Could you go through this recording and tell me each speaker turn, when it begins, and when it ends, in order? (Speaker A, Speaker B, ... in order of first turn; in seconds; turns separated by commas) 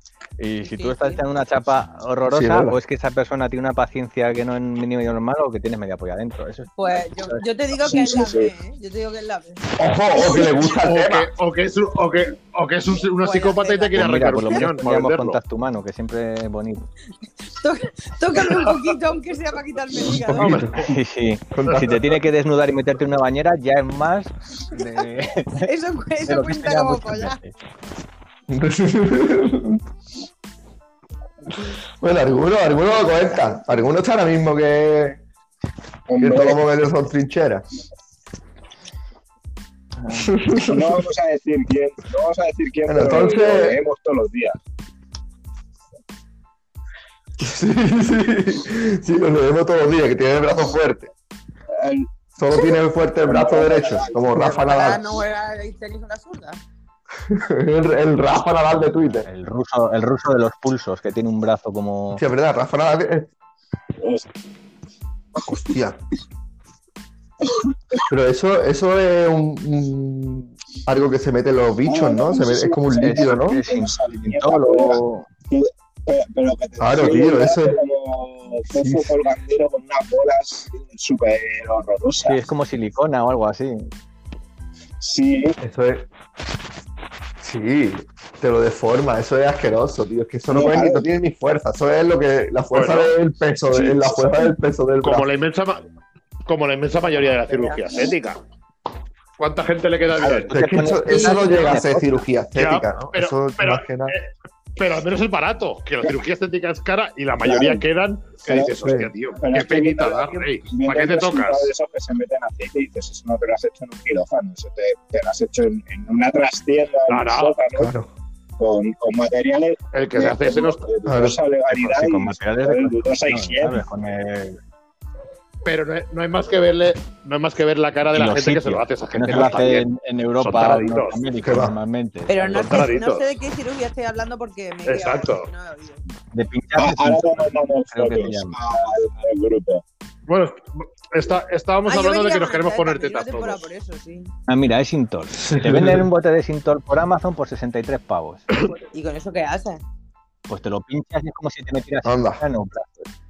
Speaker A: 0.4-7.4, Speaker B: 0.6-1.2, Speaker C: 2.2-2.8, Speaker B: 6.8-10.5, Speaker D: 7.8-8.5, Speaker C: 9.8-11.3, Speaker E: 10.8-15.4, Speaker B: 13.2-14.7, Speaker A: 13.9-16.9, Speaker B: 17.6-20.7, Speaker C: 20.1-20.7, Speaker E: 20.4-20.7, Speaker A: 20.7-27.5, Speaker C: 21.5-21.9, Speaker B: 25.6-27.4, Speaker C: 28.5-29.8, Speaker C: 32.0-35.2, Speaker D: 36.1-36.6, Speaker C: 36.2-37.6, Speaker C: 40.0-40.9, Speaker D: 40.7-44.6, Speaker C: 42.9-43.8, Speaker C: 47.4-51.1, Speaker D: 51.8-52.1, Speaker C: 52.4-55.0, Speaker D: 53.2-54.2, Speaker B: 54.3-56.6, Speaker C: 57.3-59.3, Speaker A: 59.2-62.2, Speaker C: 62.1-63.3, Speaker D: 64.0-64.2, Speaker C: 65.5-66.0, Speaker C: 68.1-73.6, Speaker D: 71.8-82.4, Speaker A: 73.0-75.3, Speaker C: 76.8-77.8, Speaker C: 78.8-79.1, Speaker A: 82.2-83.9, Speaker D: 85.0-85.5, Speaker C: 85.6-86.1, Speaker C: 87.4-95.2, Speaker D: 90.5-91.0, Speaker E: 92.7-93.2, Speaker E: 93.7-94.1, Speaker E: 95.0-95.8, Speaker E: 96.5-98.4, Speaker B: 97.3-97.8, Speaker E: 99.4-100.5, Speaker A: 100.2-102.2, Speaker C: 100.5-104.1, Speaker B: 101.1-101.4, Speaker E: 102.5-111.7, Speaker D: 107.4-107.8, Speaker D: 108.5-117.9, Speaker C: 108.8-109.1, Speaker E: 117.1-117.6, Speaker C: 117.8-118.1, Speaker D: 118.6-123.8, Speaker E: 119.9-120.8, Speaker C: 121.0-121.4, Speaker A: 121.7-124.6, Speaker E: 125.6-129.8, Speaker A: 128.1-132.9, Speaker E: 130.4-131.2, Speaker C: 131.4-131.7, Speaker B: 132.3-136.0, Speaker E: 132.5-133.3, Speaker E: 134.8-135.4, Speaker A: 136.3-138.6, Speaker D: 136.8-139.8, Speaker E: 140.3-143.7, Speaker B: 141.8-144.3, Speaker A: 144.5-148.5, Speaker C: 145.4-146.1, Speaker B: 148.9-149.8, Speaker A: 150.5-153.1, Speaker C: 152.0-152.4